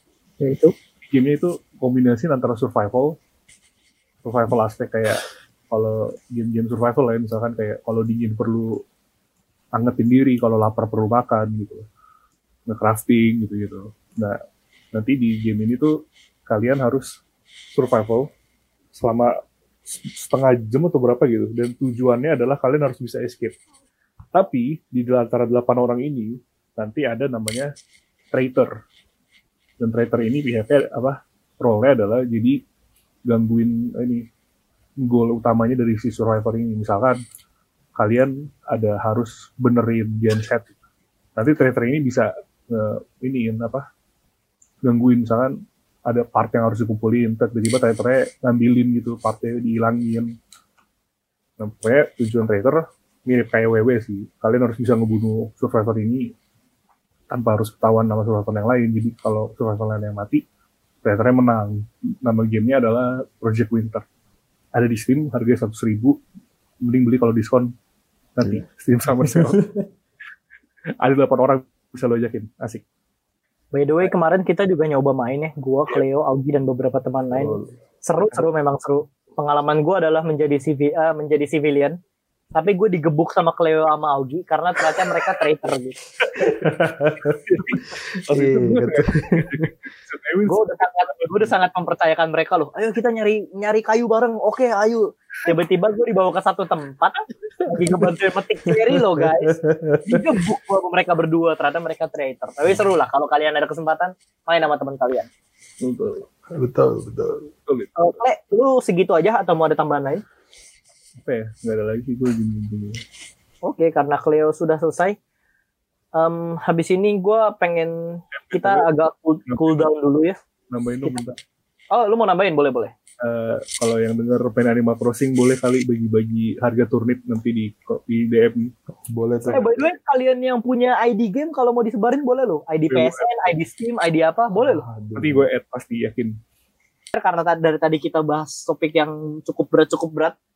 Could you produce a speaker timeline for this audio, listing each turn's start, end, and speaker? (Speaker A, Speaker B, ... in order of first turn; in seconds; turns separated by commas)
Speaker A: 0.4-0.7, Speaker B: 1.0-3.1, Speaker B: 4.2-8.8, Speaker B: 9.7-11.9, Speaker B: 12.7-14.4, Speaker B: 14.9-17.1, Speaker B: 17.8-18.3, Speaker B: 18.9-19.3, Speaker B: 19.9-23.6, Speaker B: 24.3-27.7, Speaker B: 28.3-28.7, Speaker B: 29.8-32.6, Speaker B: 33.3-34.2, Speaker B: 35.0-37.2, Speaker B: 38.0-40.8, Speaker B: 41.3-43.8, Speaker B: 44.8-45.5, Speaker B: 46.0-50.3, Speaker B: 51.6-56.3, Speaker B: 57.3-60.4, Speaker B: 61.0-64.0, Speaker B: 64.7-66.2, Speaker B: 66.8-67.7, Speaker B: 68.3-69.6, Speaker C: 69.2-69.8, Speaker B: 71.0-72.8, Speaker A: 73.7-82.0, Speaker C: 77.3-77.7, Speaker A: 82.5-86.0, Speaker B: 86.3-86.7, Speaker C: 86.4-89.7, Speaker B: 87.4-91.0, Speaker A: 90.5-105.3, Speaker C: 98.9-100.3, Speaker B: 105.8-106.3, Speaker C: 106.5-107.4, Speaker B: 107.5-107.9, Speaker A: 108.0-110.2, Speaker B: 111.2-113.0, Speaker A: 113.7-115.2, Speaker A: 116.2-120.3, Speaker B: 118.3-118.9, Speaker B: 119.5-119.8, Speaker B: 120.7-121.4, Speaker A: 121.9-122.9, Speaker B: 123.2-128.7, Speaker C: 129.0-129.9, Speaker A: 129.5-134.8, Speaker B: 132.9-133.5, Speaker C: 134.6-135.5, Speaker B: 135.2-136.3, Speaker A: 137.1-140.3